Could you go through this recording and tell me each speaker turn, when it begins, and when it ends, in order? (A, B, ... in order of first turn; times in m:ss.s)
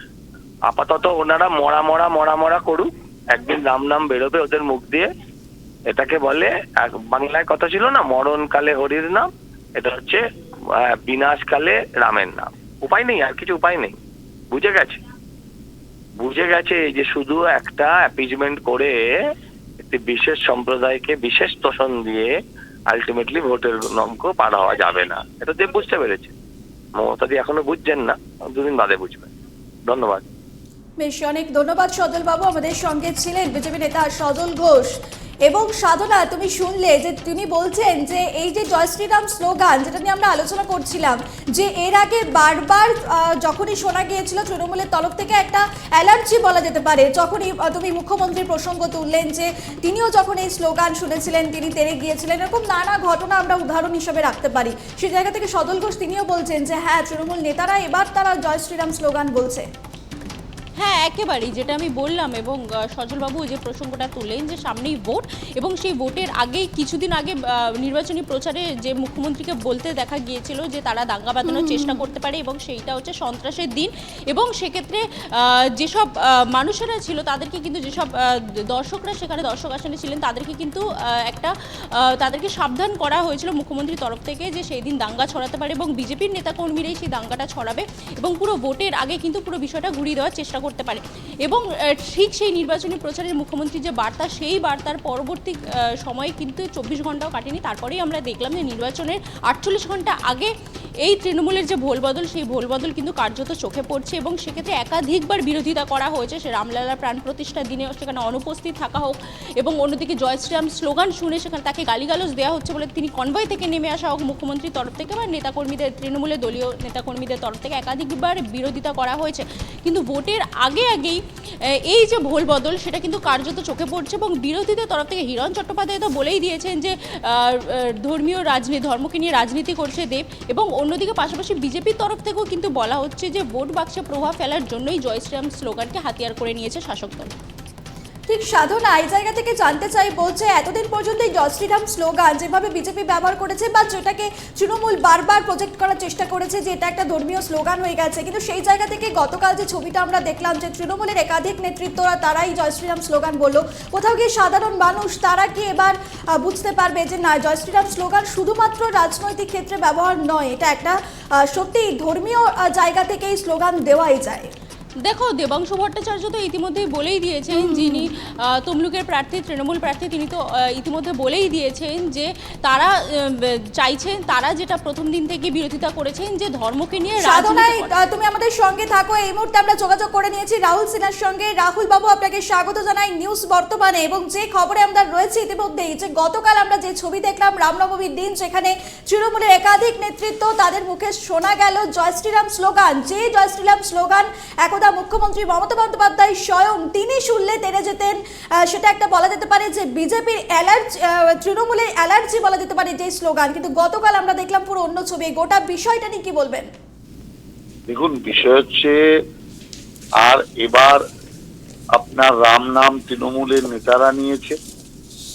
0:00.7-0:05.1 A
0:05.9-0:10.2 A
0:10.8-0:14.0 A
0:14.5-0:15.0 A
0:16.2-0:19.2 A
0:19.8-0:22.4 A
0:22.9-0:26.3 A
0:27.0-0:29.3 A
0:29.9-0:30.2 A
0:31.0-0:34.9 B
0:35.4-0:59.7 B
1:00.8-1:18.1 C
1:11.4-1:12.0 B
1:18.7-1:40.5 C
1:41.0-2:01.2 C
2:01.9-2:17.3 C
2:18.3-2:44.5 B
2:45.0-2:58.0 C
2:47.5-2:48.0 B
2:57.2-3:26.7 B
3:27.9-3:29.0 D
3:30.2-3:31.0 D
3:31.9-3:34.6 D